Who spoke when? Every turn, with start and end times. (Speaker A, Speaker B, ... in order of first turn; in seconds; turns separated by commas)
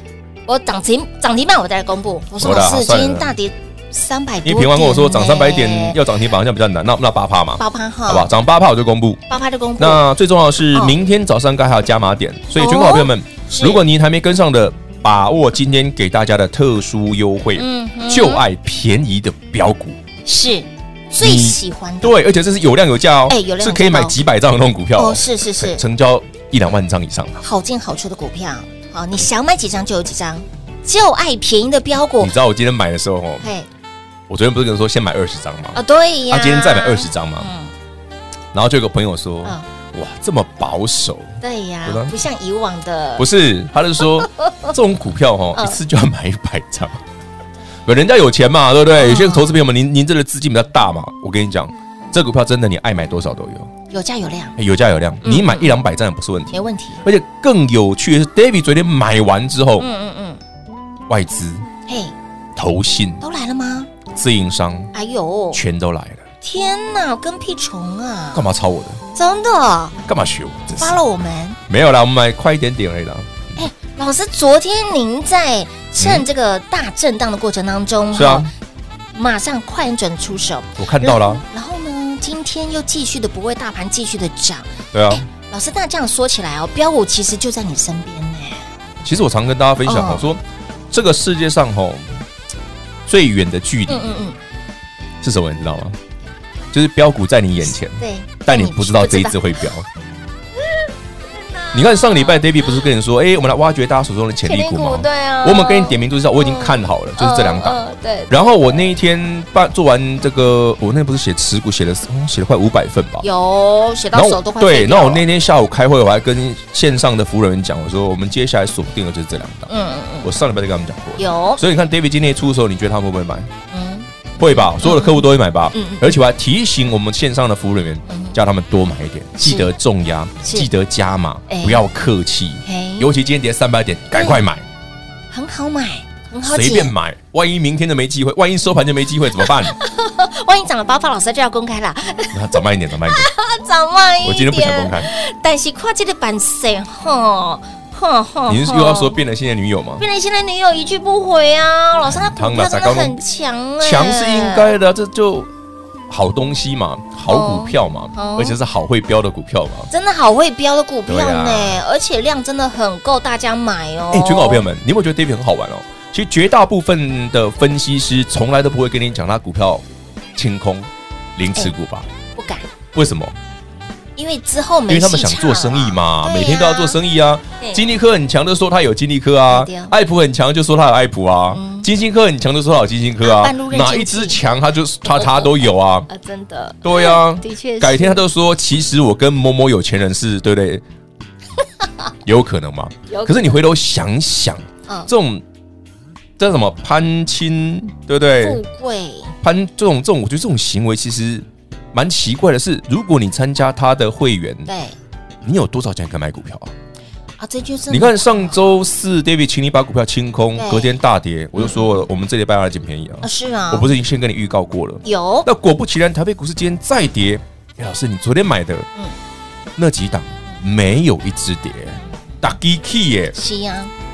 Speaker A: 0.5-6.0, Speaker B: 2.4-3.3, Speaker B: 4.4-9.2, Speaker A: 7.5-8.3, Speaker A: 9.3-10.0, Speaker B: 9.8-20.0, Speaker A: 12.5-13.8, Speaker A: 17.6-18.4, Speaker A: 20.2-22.2, Speaker B: 21.2-27.4, Speaker A: 23.3-24.1, Speaker A: 24.9-25.8, Speaker A: 27.4-32.3, Speaker B: 32.2-33.5, Speaker A: 33.4-33.7, Speaker B: 34.3-37.5, Speaker A: 35.7-37.7, Speaker B: 38.5-42.1, Speaker A: 41.4-43.2, Speaker B: 43.2-47.0, Speaker A: 44.4-44.7, Speaker B: 47.9-53.7, Speaker A: 48.9-49.5, Speaker A: 53.9-54.5, Speaker B: 54.6-59.9, Speaker A: 55.2-55.8, Speaker A: 56.5-57.0, Speaker A: 59.8-60.4, Speaker B: 61.1-61.6, Speaker A: 61.9-62.1, Speaker B: 62.5-63.2, Speaker A: 63.2-63.9, Speaker B: 64.1-64.9, Speaker A: 64.9-65.6, Speaker B: 65.5-66.2, Speaker A: 66.4-68.5, Speaker B: 68.3-69.0, Speaker A: 69.1-70.0, Speaker B: 70.0-71.0, Speaker A: 70.8-71.6, Speaker B: 71.7-73.5, Speaker A: 73.5-78.5, Speaker B: 76.0-76.2, Speaker B: 78.1-78.5, Speaker A: 79.1-88.7, Speaker B: 80.8-81.4, Speaker B: 84.9-85.2, Speaker B: 89.0-92.1, Speaker A: 89.8-90.3, Speaker B: 93.0-94.2, Speaker A: 93.9-94.4, Speaker B: 95.2-96.0, Speaker B: 96.7-99.9, Speaker A: 97.8-99.7, Speaker A: 100.6-102.9, Speaker B: 101.7-113.3, Speaker A: 104.4-108.9, Speaker A: 113.2-115.2, Speaker B: 114.1-119.7, Speaker A: 119.7-120.3, Speaker B: 120.2-123.5, Speaker A: 121.2-121.6, Speaker A: 123.7-126.1, Speaker B: 124.4-134.7, Speaker A: 128.1-128.3, Speaker A: 129.4-129.7, Speaker A: 130.4-130.7, Speaker A: 131.5-131.8, Speaker A: 132.6-133.1, Speaker A: 134.1-134.4, Speaker A: 135.3-136.9, Speaker B: 136.4-139.8, Speaker A: 139.4-149.2, Speaker B: 142.3-143.3, Speaker B: 144.2-145.1, Speaker B: 148.5-150.0, Speaker A: 150.0-154.7, Speaker B: 152.1-153.2, Speaker B: 153.8-155.5, Speaker B: 156.1-159.9, Speaker A: 157.3-158.6, Speaker A: 159.9-164.6, Speaker B: 161.1-161.8, Speaker B: 164.1-172.1, Speaker A: 172.3-172.7, Speaker B: 172.9-173.3, Speaker A: 174.2-177.0, Speaker B: 174.9-186.1, Speaker A: 177.6-177.8, Speaker A: 179.5-179.9, Speaker A: 181.5-181.9, Speaker A: 183.2-184.4, Speaker A: 185.0-185.6, Speaker A: 186.1-188.2, Speaker B: 186.8-190.8, Speaker B: 192.2-195.4, Speaker A: 193.1-193.6, Speaker B: 196.4-198.6, Speaker A: 198.4-199.3, Speaker B: 199.4-204.7, Speaker A: 204.7-204.9, Speaker B: 205.4-206.7, Speaker A: 207.4-208.6, Speaker B: 207.9-218.9, Speaker A: 210.6-211.0, Speaker A: 211.6-212.0, Speaker A: 213.2-213.9, Speaker A: 215.0-215.5, Speaker B: 219.8-223.3, Speaker A: 222.0-222.4, Speaker A: 223.3-223.9